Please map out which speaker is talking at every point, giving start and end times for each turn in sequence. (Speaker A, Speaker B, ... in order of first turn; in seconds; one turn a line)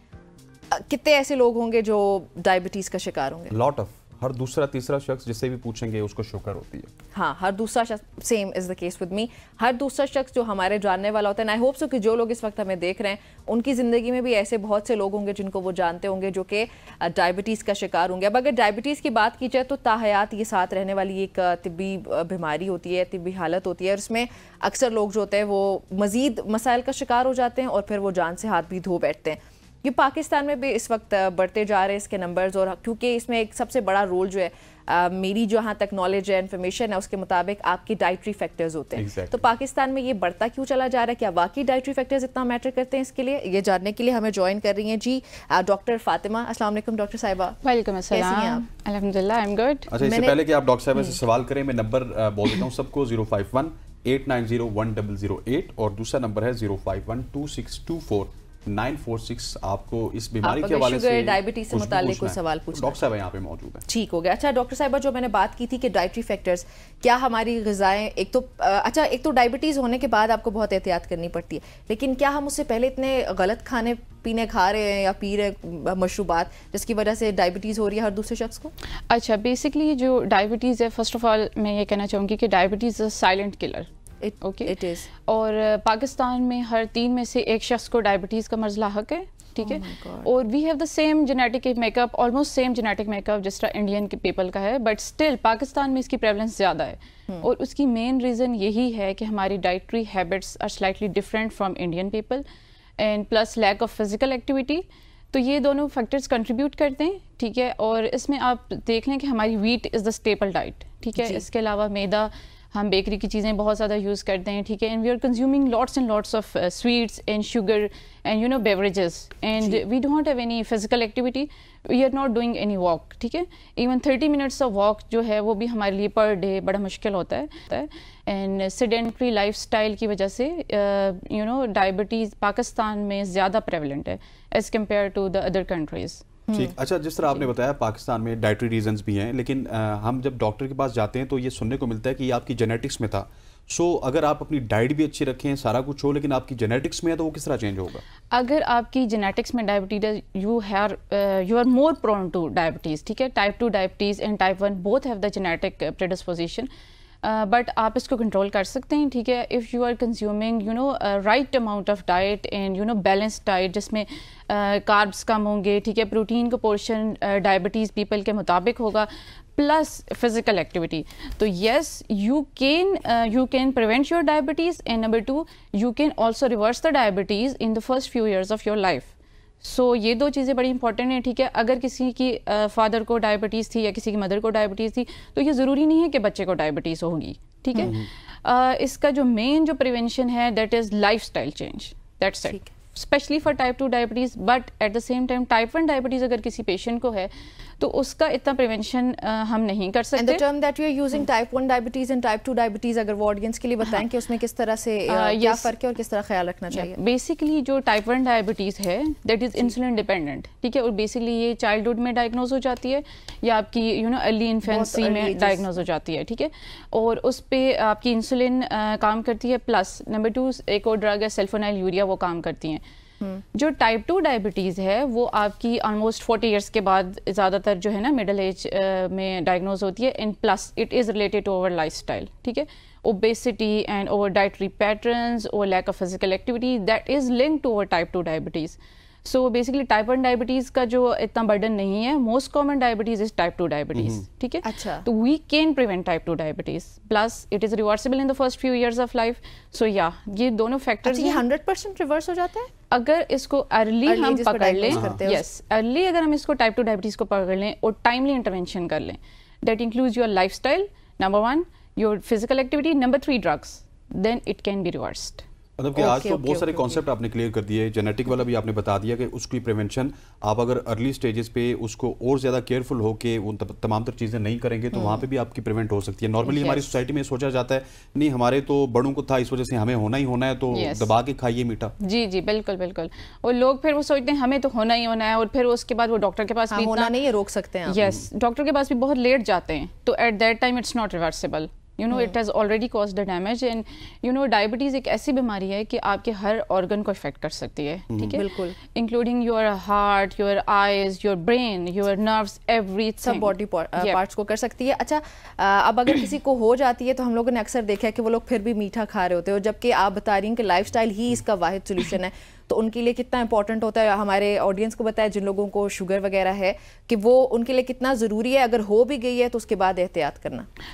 Speaker A: 0.7-3.5
Speaker B: 3.5-6.9
Speaker A: 7.1-47.6
Speaker B: 39.0-39.4
Speaker C: 47.6-49.9
Speaker A: 48.1-48.6
Speaker B: 49.9-63.8
Speaker A: 50.0-50.4
Speaker A: 60.4-63.0
Speaker A: 63.9-78.7
Speaker C: 79.1-83.9
Speaker A: 84.2-85.1
Speaker C: 84.4-102.4
Speaker A: 89.6-90.3
Speaker C: 103.0-136.2
Speaker A: 136.5-136.7
Speaker B: 136.6-148.0
Speaker C: 148.3-156.7
Speaker C: 157.2-200.4
Speaker A: 200.2-207.0
Speaker C: 205.1-205.7
Speaker C: 206.7-222.8
Speaker A: 214.7-215.7
Speaker C: 223.5-251.4
Speaker B: 243.9-244.2
Speaker A: 244.6-245.1
Speaker A: 251.1-252.7
Speaker C: 252.9-265.4
Speaker A: 254.1-255.4
Speaker B: 254.9-255.2
Speaker B: 265.8-281.9
Speaker A: 266.0-267.0
Speaker A: 274.9-275.2
Speaker A: 276.5-276.9
Speaker C: 280.7-281.1
Speaker C: 282.0-287.1
Speaker A: 286.7-288.0
Speaker C: 287.9-304.2
Speaker B: 298.1-298.4
Speaker A: 298.3-298.8
Speaker A: 303.2-320.7